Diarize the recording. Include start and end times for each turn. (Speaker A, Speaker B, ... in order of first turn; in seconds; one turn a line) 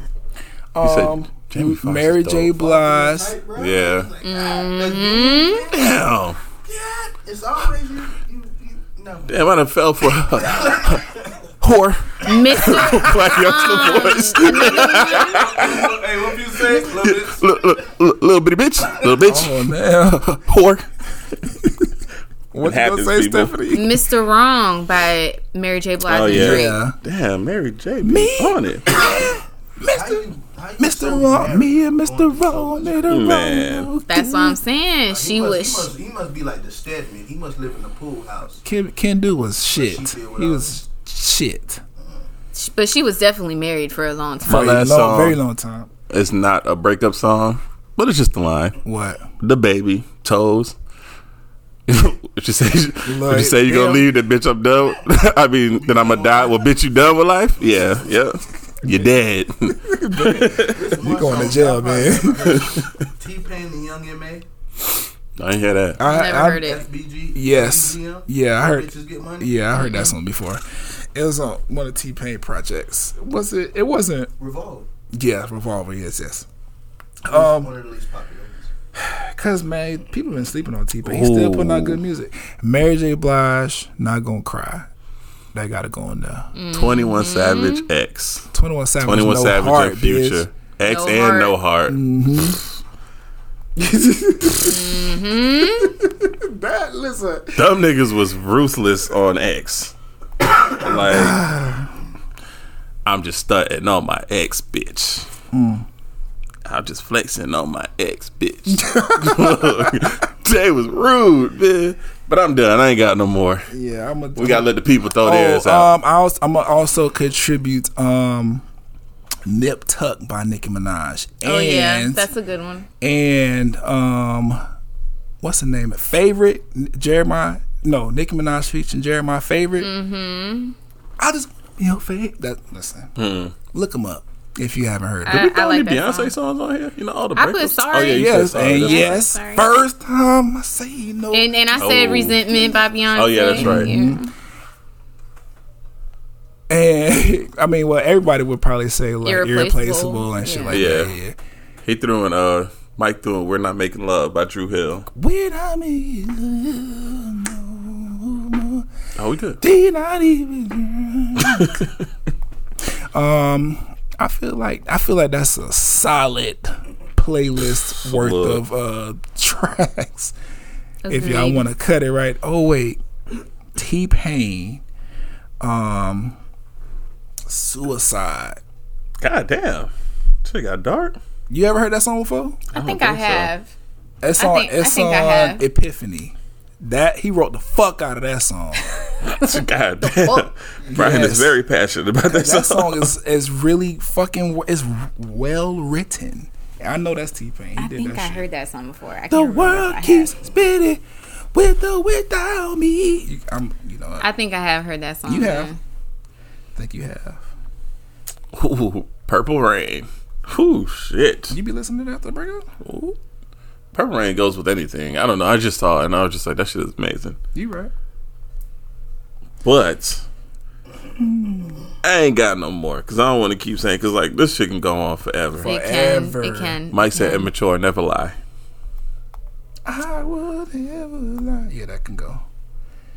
Speaker A: 0.7-3.4
Speaker B: 0.8-2.5
Speaker C: 2.5-6.0
Speaker B: 3.6-4.1
Speaker D: 4.2-5.7
Speaker B: 5.7-6.4
Speaker C: 6.6-9.6
Speaker B: 9.3-11.1
Speaker C: 10.2-11.3
Speaker B: 11.6-15.9
Speaker D: 12.2-15.5
Speaker C: 14.6-17.8
Speaker B: 16.6-19.7
Speaker A: 19.2-20.4
Speaker B: 20.3-20.8
Speaker A: 22.5-23.9
Speaker B: 22.6-23.5
Speaker D: 23.7-26.8
Speaker B: 26.1-28.9
Speaker A: 26.3-26.9
Speaker A: 28.0-30.2
Speaker C: 29.9-33.4
Speaker A: 30.8-34.6
Speaker B: 33.1-33.9
Speaker D: 34.1-35.9
Speaker C: 35.1-38.6
Speaker A: 38.6-41.8
Speaker C: 39.7-40.8
Speaker D: 42.5-44.9
Speaker B: 44.5-45.4
Speaker A: 44.5-45.9
Speaker B: 46.1-48.8
Speaker A: 48.8-49.3
Speaker B: 49.4-50.8
Speaker B: 51.9-60.9
Speaker A: 53.0-54.0
Speaker C: 55.7-56.7
Speaker A: 59.7-62.6
Speaker C: 60.6-64.4
Speaker B: 62.5-62.9
Speaker B: 65.4-66.0
Speaker A: 66.0-66.7
Speaker D: 66.0-66.8
Speaker C: 66.5-69.5
Speaker A: 67.3-70.6
Speaker D: 69.7-70.1
Speaker A: 71.1-74.3
Speaker C: 74.4-74.9
Speaker A: 75.1-76.5
Speaker A: 77.2-77.7
Speaker C: 77.3-78.7
Speaker A: 79.0-84.9
Speaker B: 81.0-82.0
Speaker A: 85.5-86.5
Speaker D: 86.5-87.8
Speaker B: 86.7-88.5
Speaker A: 88.5-90.5
Speaker B: 89.0-92.0
Speaker D: 90.8-91.6
Speaker A: 91.9-92.6
Speaker A: 93.8-95.1
Speaker D: 94.6-95.9
Speaker A: 95.8-97.8
Speaker B: 97.5-99.9
Speaker B: 100.7-101.4
Speaker A: 101.0-101.9
Speaker B: 103.0-105.2
Speaker A: 105.5-105.8
Speaker B: 106.7-113.7
Speaker A: 108.7-110.1
Speaker A: 113.7-118.6
Speaker B: 114.3-115.9
Speaker A: 119.5-122.3
Speaker D: 121.4-122.9
Speaker A: 123.0-124.6
Speaker A: 125.4-129.9
Speaker D: 129.8-130.7
Speaker A: 131.2-133.1
Speaker B: 133.2-133.5
Speaker A: 133.7-135.4
Speaker D: 135.2-136.3
Speaker B: 135.2-139.2
Speaker D: 137.3-139.8
Speaker A: 138.1-141.8
Speaker D: 141.3-144.3
Speaker B: 141.8-143.9
Speaker A: 143.6-144.2
Speaker A: 146.7-151.3
Speaker D: 149.2-150.8
Speaker B: 150.7-151.1
Speaker B: 151.8-155.1
Speaker A: 155.1-158.9
Speaker B: 159.2-159.6
Speaker A: 159.6-161.9
Speaker B: 161.4-161.9
Speaker A: 162.8-170.3
Speaker B: 168.0-168.6
Speaker D: 171.0-171.7
Speaker A: 171.1-173.0
Speaker A: 173.7-174.8
Speaker A: 175.6-176.4
Speaker A: 177.5-178.6
Speaker B: 179.2-179.9
Speaker B: 180.4-181.2
Speaker A: 181.5-182.6
Speaker B: 182.7-183.5
Speaker D: 182.7-183.7
Speaker A: 184.2-188.8
Speaker D: 184.4-185.6
Speaker D: 189.2-190.5
Speaker B: 189.3-193.1
Speaker A: 190.9-191.6
Speaker A: 192.3-198.4
Speaker D: 197.8-200.4
Speaker A: 199.3-201.0
Speaker A: 201.5-204.2
Speaker D: 204.2-205.8
Speaker A: 205.3-205.7
Speaker A: 206.7-207.4
Speaker B: 208.5-211.6
Speaker A: 211.5-212.7
Speaker B: 212.8-213.2
Speaker B: 213.9-217.4
Speaker A: 217.5-217.9
Speaker B: 219.6-220.2
Speaker A: 221.2-221.9
Speaker B: 222.0-225.7
Speaker A: 225.6-226.8
Speaker D: 225.6-227.5
Speaker B: 226.9-228.3
Speaker A: 229.8-232.4